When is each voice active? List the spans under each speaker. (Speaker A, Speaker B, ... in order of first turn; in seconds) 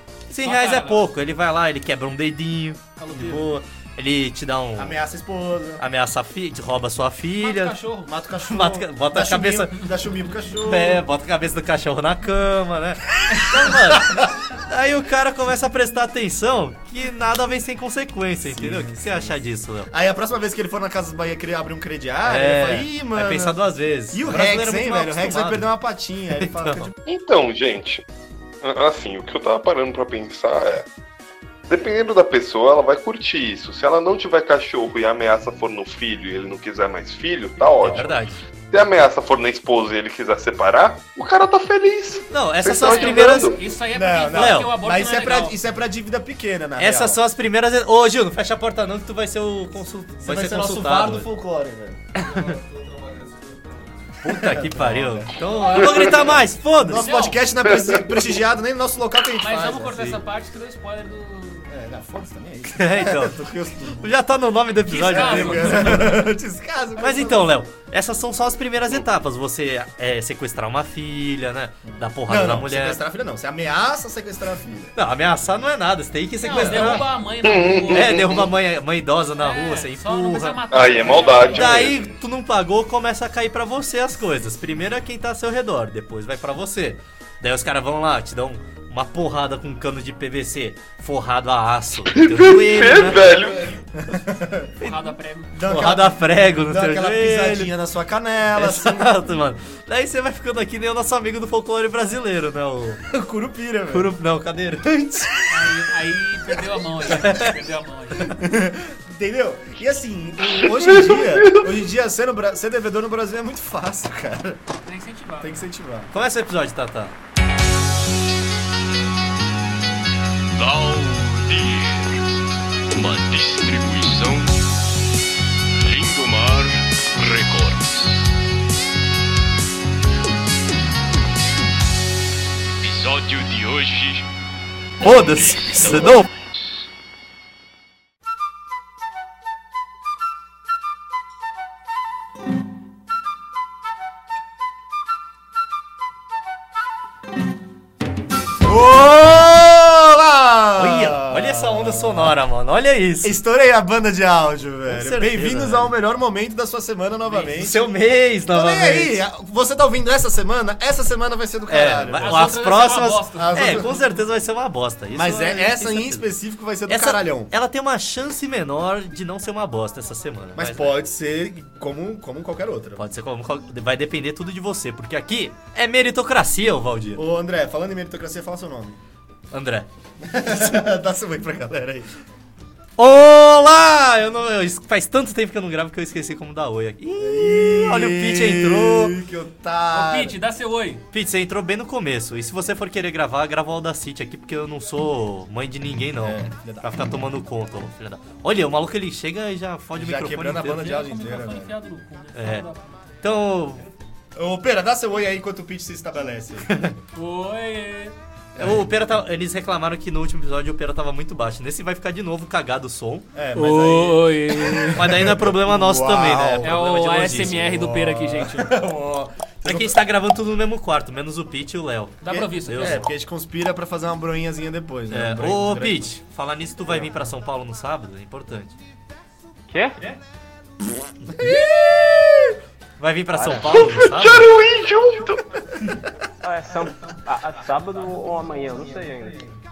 Speaker A: 0.3-5.0, 5.8-7.8, 8.4-9.9, 10.6-19.9, 22.2-25.6, 26.4-26.9, 37.8-38.4, 42.3-43.5, 44.3-44.7, 46.8-51.3, 54.2-57.0, 59.9-60.2, 62.6-63.4, 64.0-66.1, 67.0-73.0, 74.9-77.1, 77.9-80.6, 81.5-93.5, 95.6-97.7, 98.5-103.0, 103.9-105.4, 107.0-107.5, 116.1-117.1, 135.0-136.3, 150.8-153.4, 154.9-155.9, 157.4-159.2, 161.7-166.2, 166.9-171.0, 173.0-177.2, 179.5-179.9, 183.0-189.1, 191.1-200.9, 202.3-202.7, 203.2-203.9, 208.6-213.3, 214.9-217.7, 219.6-223.1, 225.1-228.7, 233.0-234.5
Speaker B: 0.4-1.1, 3.0-3.6, 7.4-8.1, 37.6-38.1, 42.8-45.6, 57.0-57.4, 59.4-61.7, 64.8-66.2, 76.4-78.4, 79.4-81.9, 94.8-95.5, 105.5-108.3, 114.8-115.7, 162.2-164.2, 189.9-191.0, 200.6-203.0, 207.1-208.1, 213.5-215.2, 216.6-218.8, 222.2-223.0
Speaker C: 4.8-5.8, 8.0-11.0, 13.9-14.3, 18.5-19.3, 19.9-23.6, 24.1-26.9, 43.9-47.2, 50.2-52.4, 54.3-60.0, 61.7-64.1, 65.0-67.5, 71.8-74.9, 94.0-94.8, 95.5-99.1, 103.1-104.1, 108.2-114.6, 115.4-116.1, 148.6-152.4, 153.2-157.9, 158.5-162.4, 163.3-163.9, 165.1-167.5, 170.5-173.0, 177.2-179.0, 180.2-182.1, 187.2-190.3, 196.2-197.1, 200.0-201.7, 204.3-206.8, 208.5-208.9, 213.3-216.7, 217.5-219.9, 222.3-226.1, 231.3-232.5, 233.3-233.7
Speaker D: 27.0-28.0, 28.6-30.9, 31.7-38.2, 38.7-43.6, 77.5-78.2, 80.7-82.1, 92.1-93.7, 110.8-111.6, 233.6-235.4
Speaker E: 120.5-122.3, 122.9-124.6, 125.8-128.3, 132.8-134.3, 135.2-136.3
Speaker F: 229.7-230.0, 236.4-239.4